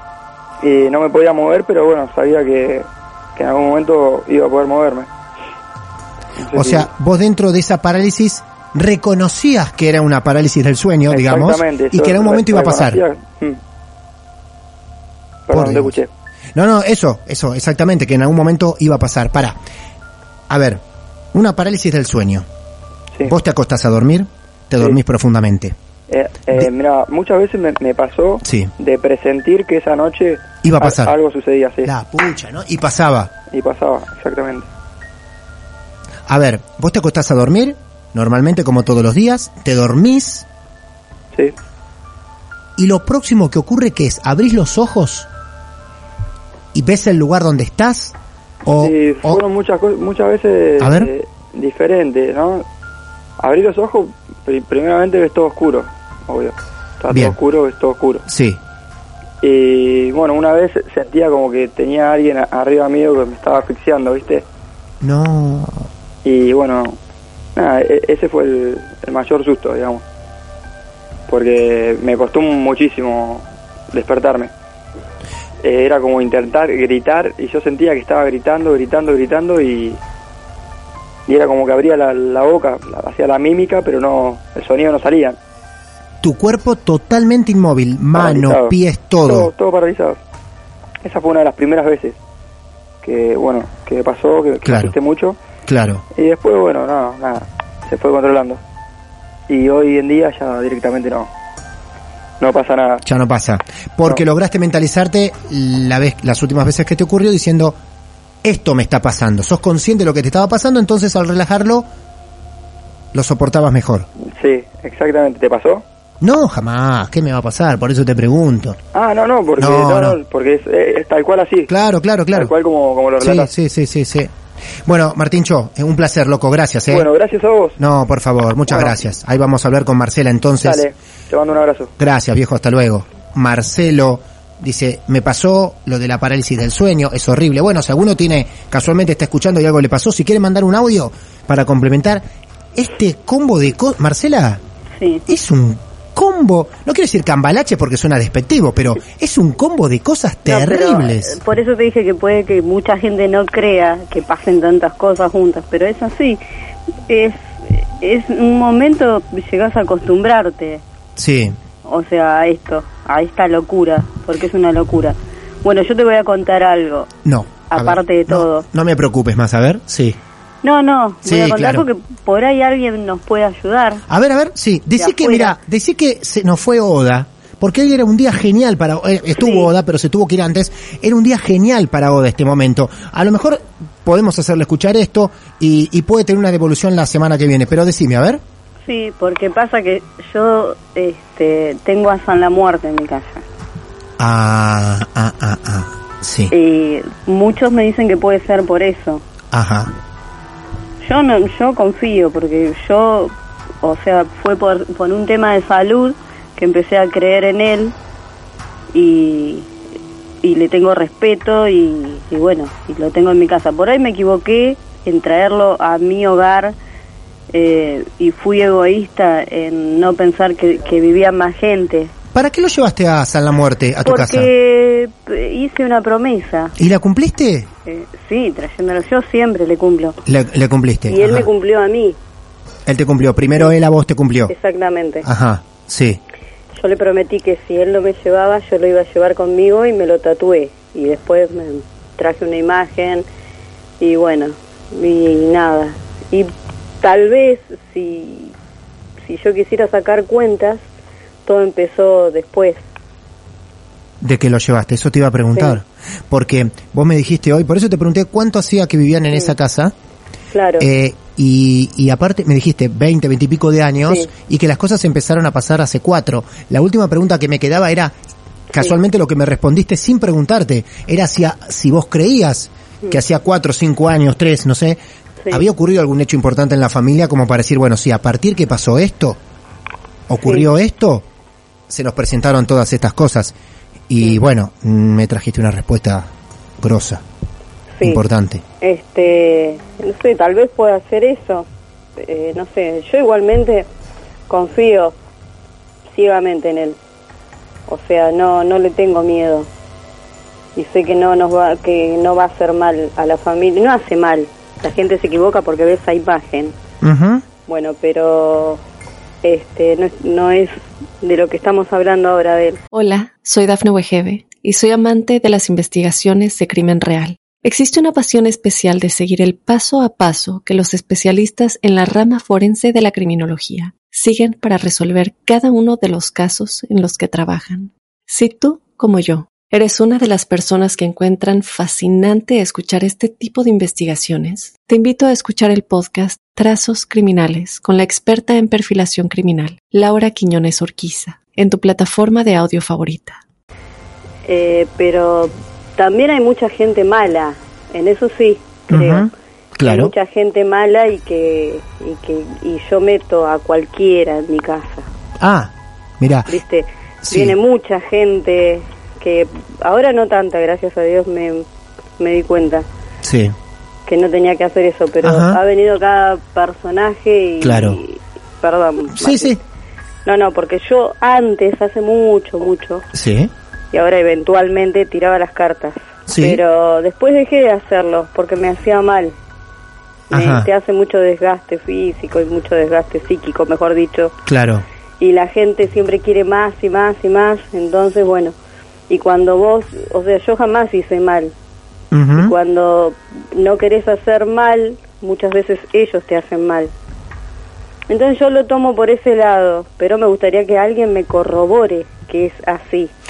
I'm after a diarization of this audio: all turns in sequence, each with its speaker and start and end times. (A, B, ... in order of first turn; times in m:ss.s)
0:00.6-0:05.1 A
0:06.4-0:06.9 A
0:06.5-0:13.0 B
0:11.1-0:13.6 A
0:15.5-0:16.1 A
0:15.5-0:16.0 B
0:16.6-0:19.6 B
0:20.5-0:22.5 B
0:23.3-0:25.8 B
0:26.1-0:31.9 A
0:28.4-0:28.7 B
0:30.6-0:31.2 B
0:31.8-0:33.3 B
0:33.5-0:34.7 A
0:36.3-0:40.5 B
0:42.8-0:45.3 B
0:46.7-0:49.4 B
0:48.8-0:52.6 A
0:50.8-0:51.1 B
0:53.4-0:58.2 A
0:57.1-0:57.4 B
0:58.3-0:58.6 B
0:59.4-1:04.5 A
1:05.0-1:05.9 B
1:06.2-1:07.0 A
1:07.6-1:10.0 A
1:11.3-1:14.5 A
1:15.6-1:20.0 A
1:21.3-1:25.4 A
1:26.2-1:29.5 B
1:28.2-1:30.2 A
1:31.0-1:32.2 A
1:33.0-1:35.4 A
1:34.6-1:35.0 B
1:35.7-1:36.0 B
1:36.2-1:38.6 A
1:39.5-1:41.3 A
1:42.4-1:43.0 A
1:43.0-1:47.8 B
1:48.4-1:51.9 B
1:53.1-1:54.1 B
1:54.4-1:55.8 A
1:56.2-1:58.8 B
1:58.9-2:01.7 A
1:59.6-2:00.2 B
2:01.7-2:02.5 B
2:02.3-2:03.5 A
2:03.2-2:04.3 B
2:04.8-2:07.1 B
2:06.9-2:07.8 A
2:07.8-2:10.8 B
2:08.7-2:09.0 A
2:10.6-2:11.9 A
2:12.0-2:24.6 B
2:25.0-2:25.2 C
2:25.3-2:31.4 B
2:30.5-2:36.4 C
2:37.1-2:40.8 C
2:41.2-2:41.6 B
2:41.8-2:47.1 C
2:47.2-2:50.2 B
2:47.7-2:48.6 C
2:50.6-2:54.0 C
2:51.2-2:51.9 B
2:54.1-3:08.4 B
2:55.0-2:55.6 C
2:59.4-2:59.7 C
3:08.8-3:13.4 C
3:14.2-3:16.5 B
3:16.5-3:19.2 C
3:19.5-3:19.9 B
3:21.0-3:28.0 C
3:28.9-3:29.7 C
3:30.4-3:36.8 C
3:37.5-3:42.1 C
3:42.3-3:44.5 B
3:44.0-3:46.7 C
3:46.8-3:47.7 B
3:47.9-3:50.2 C
3:50.3-3:51.5 B
3:51.1-3:52.2 C
3:52.9-3:54.5 B
3:54.5-3:55.3 C
3:55.2-3:56.2 B
3:56.8-4:03.3 C
4:04.0-4:08.6 C
4:09.2-4:10.8 C
4:11.4-4:12.8 C
4:14.2-4:19.9 B
4:20.5-4:20.9 C
4:20.8-4:28.1 B
4:28.7-4:35.0 B
4:35.5-4:39.4 B
4:40.3-4:41.3 B
4:41.9-4:43.6 B
4:44.1-4:46.3 B
4:46.8-4:47.2 B
4:48.0-4:48.2 C
4:48.0-4:48.6 B
4:48.8-4:53.9 C
4:54.5-4:55.2 C
4:56.1-4:57.0 C
4:57.9-4:59.7 C
5:00.8-5:06.8 C
5:07.0-5:07.4 B
5:07.7-5:08.8 C
5:09.4-5:12.8 C
5:12.9-5:43.4 D
5:44.4-5:49.3 C
5:48.9-5:50.1 B
5:49.8-5:55.1 C
5:55.4-5:56.5 B
5:56.5-6:01.7 C
5:57.2-5:57.6 B
6:02.2-6:02.9 C
6:03.2-6:03.6 B
6:04.1-6:09.6 C
6:05.2-6:05.6 B
6:07.6-6:08.0 B
6:09.1-6:09.6 B
6:10.3-6:13.0 C
6:13.1-6:13.5 B
6:13.9-6:19.4 C
6:16.3-6:16.6 B
6:20.3-6:24.3 C
6:20.3-6:20.7 B
6:24.5-6:24.8 B
6:25.2-6:28.6 C
6:29.1-6:31.6 C
6:32.1-6:32.6 B
6:32.4-6:36.9 C
6:38.1-6:43.1 C